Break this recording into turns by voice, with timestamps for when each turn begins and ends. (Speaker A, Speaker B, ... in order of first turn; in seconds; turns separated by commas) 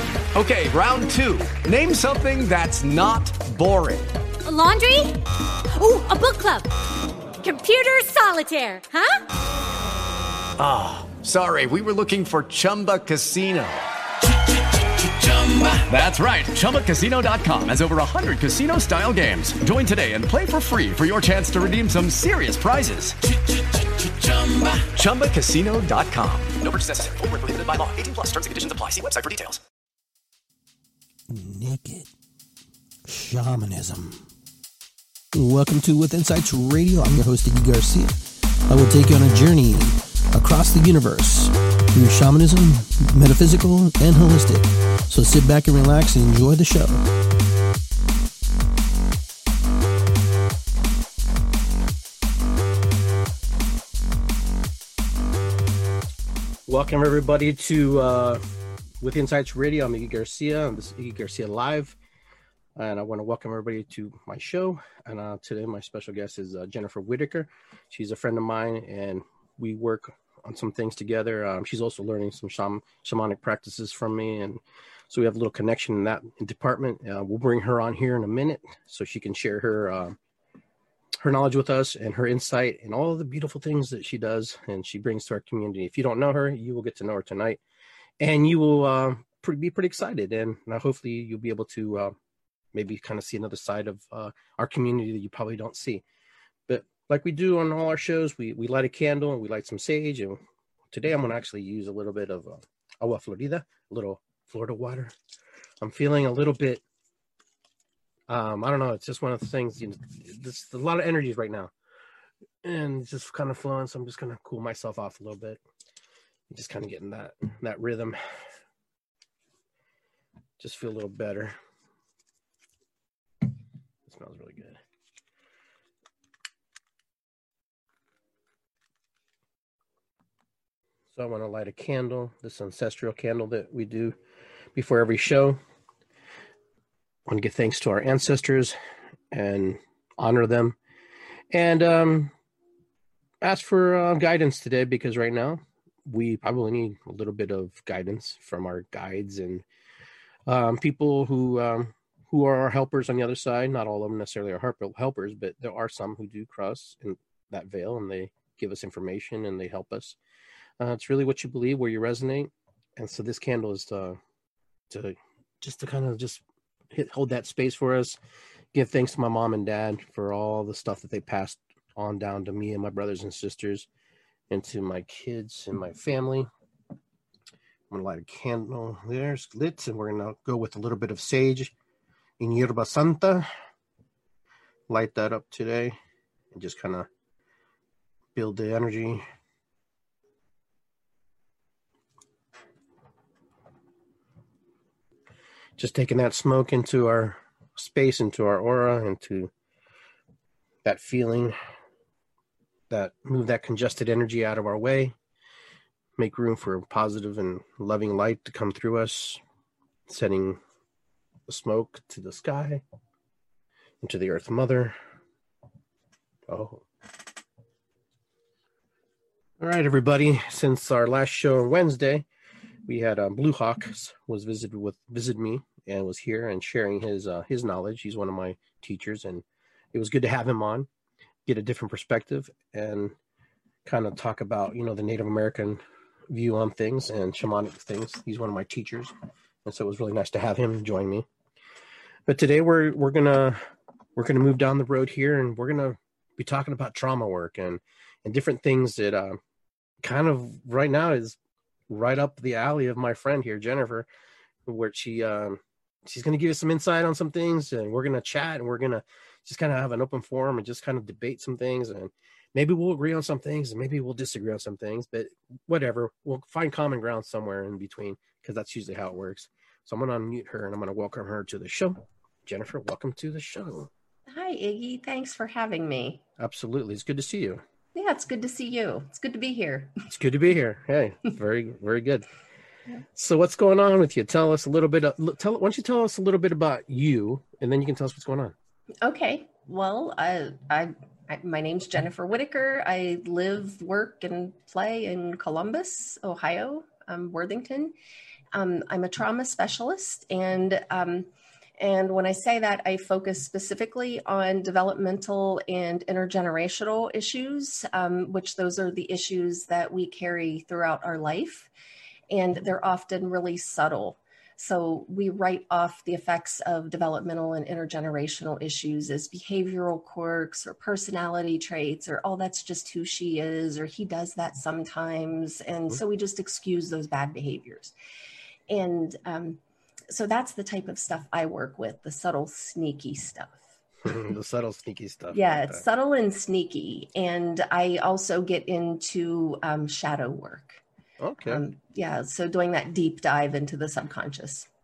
Speaker A: 0.3-4.2, Speaker B: 4.5-5.2, Speaker B: 5.7-6.7, Speaker B: 7.4-9.2, Speaker A: 10.6-13.8, Speaker A: 15.0-23.2, Speaker A: 24.0-26.5, Speaker C: 26.6-29.6, Speaker D: 31.3-32.1, Speaker D: 33.0-34.3, Speaker D: 35.3-47.0, Speaker D: 56.7-58.4, Speaker D: 59.0-62.0, Speaker D: 62.8-80.2, Speaker D: 81.2-87.6, Speaker D: 88.2-92.2, Speaker D: 92.7-96.0, Speaker D: 96.7-100.4, Speaker D: 100.9-105.1, Speaker D: 105.8-106.8, Speaker D: 108.3-111.7, Speaker D: 112.6-115.6, Speaker D: 116.5-118.4, Speaker D: 120.6-121.6, Speaker D: 124.1-124.8, Speaker D: 131.1-134.2, Speaker D: 134.8-135.6, Speaker D: 137.3-138.8, Speaker D: 139.3-140.8, Speaker D: 141.5-142.3, Speaker D: 143.4-149.7, Speaker D: 150.5-160.2, Speaker D: 160.8-164.2, Speaker D: 164.9-168.2, Speaker D: 168.7-173.9, Speaker D: 174.5-176.5, Speaker D: 177.9-181.7, Speaker D: 182.4-183.5, Speaker D: 184.9-186.0, Speaker D: 186.5-187.1, Speaker D: 188.3-189.2, Speaker D: 195.8-199.5, Speaker D: 200.8-201.6, Speaker D: 202.9-205.2, Speaker D: 206.2-209.4, Speaker D: 210.1-210.6, Speaker D: 211.5-212.8, Speaker D: 214.0-215.0, Speaker D: 216.5-216.8, Speaker D: 219.6-222.2, Speaker D: 222.9-230.9, Speaker D: 231.5-233.2, Speaker D: 233.8-239.1, Speaker D: 239.7-241.3, Speaker D: 242.3-249.4, Speaker D: 250.0-251.4, Speaker D: 251.9-254.1, Speaker D: 254.7-273.9, Speaker E: 274.3-276.2, Speaker D: 276.4-277.6, Speaker E: 277.9-279.9, Speaker D: 280.1-282.2, Speaker D: 283.1-288.5, Speaker E: 289.0-297.9, Speaker E: 298.5-301.3, Speaker E: 301.8-311.7, Speaker E: 312.3-327.9, Speaker E: 328.7-334.1, Speaker D: 334.0-335.8, Speaker E: 335.3-340.8, Speaker D: 341.2-341.6, Speaker E: 341.4-344.7